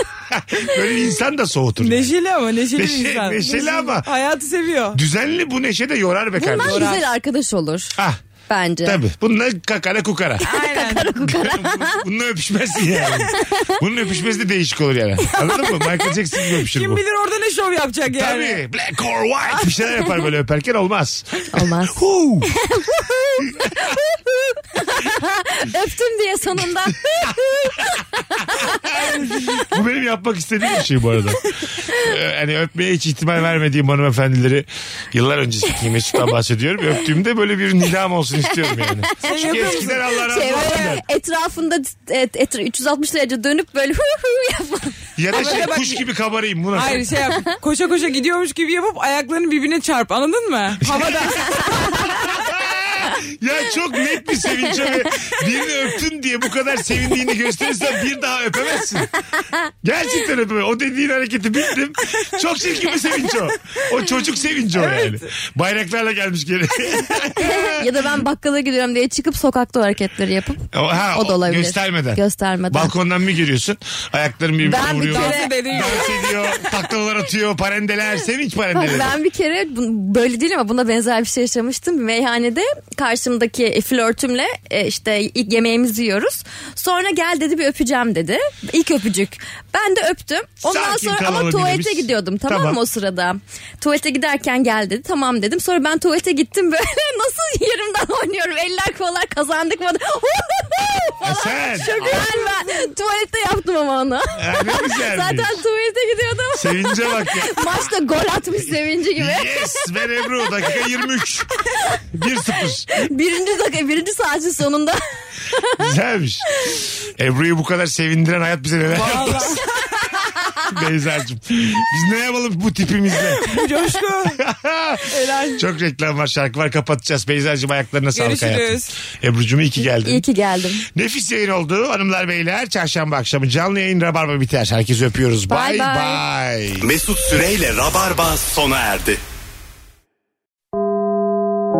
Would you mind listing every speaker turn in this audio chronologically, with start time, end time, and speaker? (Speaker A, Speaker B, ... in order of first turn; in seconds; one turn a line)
Speaker A: 0.3-2.1
Speaker B: 1.8-5.0
Speaker A: 2.8-4.1
Speaker A: 4.9-7.0
Speaker C: 6.3-8.0
Speaker B: 6.6-7.0
Speaker C: 8.5-9.0
Speaker A: 8.8-10.4
Speaker C: 10.4-12.0
Speaker B: 10.4-11.1
Speaker A: 11.2-17.0
Speaker C: 13.3-13.8
Speaker B: 16.6-18.6
Speaker A: 18.1-22.5
Speaker C: 21.5-22.0
Speaker C: 22.6-23.9
Speaker C: 24.8-28.9
Speaker A: 28.6-41.0
Speaker B: 39.2-40.0
Speaker C: 39.4-44.9
Speaker A: 45.2-47.1
Speaker B: 45.3-46.0
Speaker B: 46.7-51.8
Speaker A: 50.8-59.1
Speaker A: 59.8-67.9
Speaker B: 64.7-65.2
Speaker C: 67.4-70.6
Speaker A: 70.7-79.1
Speaker C: 71.1-72.9
Speaker C: 74.6-75.9
Speaker B: 74.8-76.3
Speaker C: 78.7-109.8
Speaker A: 90.6-92.8
Speaker A: 101.2-102.3
Speaker A: 104.3-105.6
Speaker A: 106.5-107.8
Speaker A: 109.2-111.5
Speaker A: 112.1-113.0
Speaker C: 112.9-115.0
Speaker C: 115.5-115.8
Speaker A: 115.8-116.4
Speaker A: 117.2-119.6
Speaker B: 118.9-120.2
Speaker A: 120.7-123.5
Speaker B: 123.3-124.4
Speaker A: 124.4-130.2
Speaker B: 125.1-125.6
Speaker B: 128.1-128.9
Speaker C: 129.8-130.8
Speaker A: 130.9-136.9
Speaker C: 135.5-136.2
Speaker D: 136.8-139.2